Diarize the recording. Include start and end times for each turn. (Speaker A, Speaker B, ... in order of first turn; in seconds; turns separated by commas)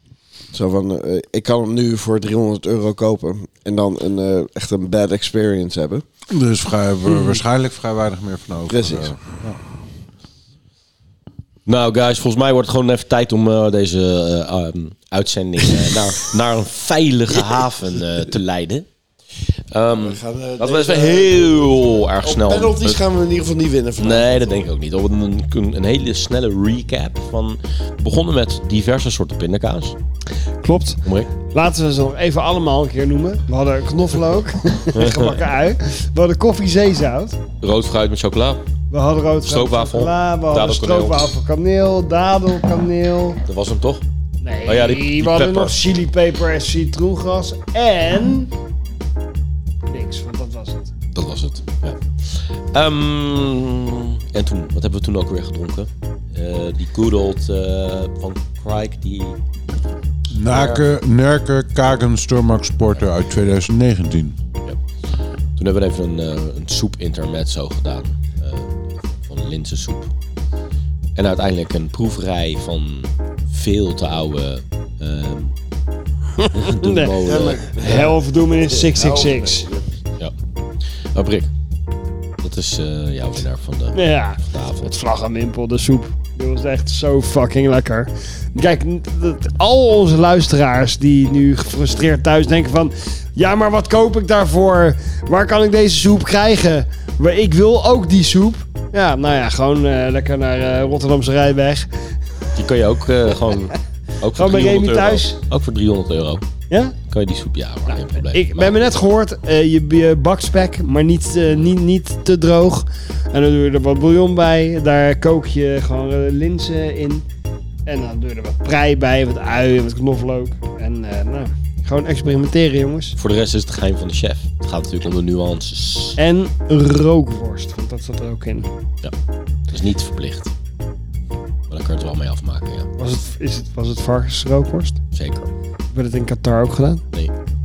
Speaker A: 0.5-6.0, Speaker B: 6.3-9.6, Speaker A: 8.7-9.2, Speaker C: 11.7-18.9, Speaker C: 19.7-23.0, Speaker A: 19.9-24.7, Speaker C: 24.0-30.0, Speaker D: 30.6-37.4, Speaker C: 31.0-31.3, Speaker C: 34.9-35.4, Speaker C: 37.6-38.6, Speaker D: 38.9-43.4, Speaker C: 39.5-41.2, Speaker C: 43.5-44.0, Speaker D: 44.4-48.5, Speaker C: 44.6-45.8, Speaker D: 49.9-50.9, Speaker C: 51.1-59.4, Speaker B: 60.3-64.4, Speaker C: 60.5-60.9, Speaker C: 65.6-70.1, Speaker C: 71.2-75.6, Speaker D: 76.4-79.7, Speaker C: 76.5-78.1, Speaker A: 77.2-79.9, Speaker C: 80.9-81.5, Speaker C: 82.4-84.9, Speaker D: 83.9-101.9, Speaker C: 102.6-106.5, Speaker D: 104.3-105.4, Speaker D: 106.7-107.0, Speaker C: 107.1-108.8, Speaker D: 108.0-117.2, Speaker D: 117.9-123.2, Speaker C: 123.2-126.2, Speaker D: 126.2-128.7, Speaker C: 129.7-130.5, Speaker C: 131.7-132.9, Speaker D: 133.0-135.0, Speaker C: 135.1-135.5, Speaker D: 135.9-137.0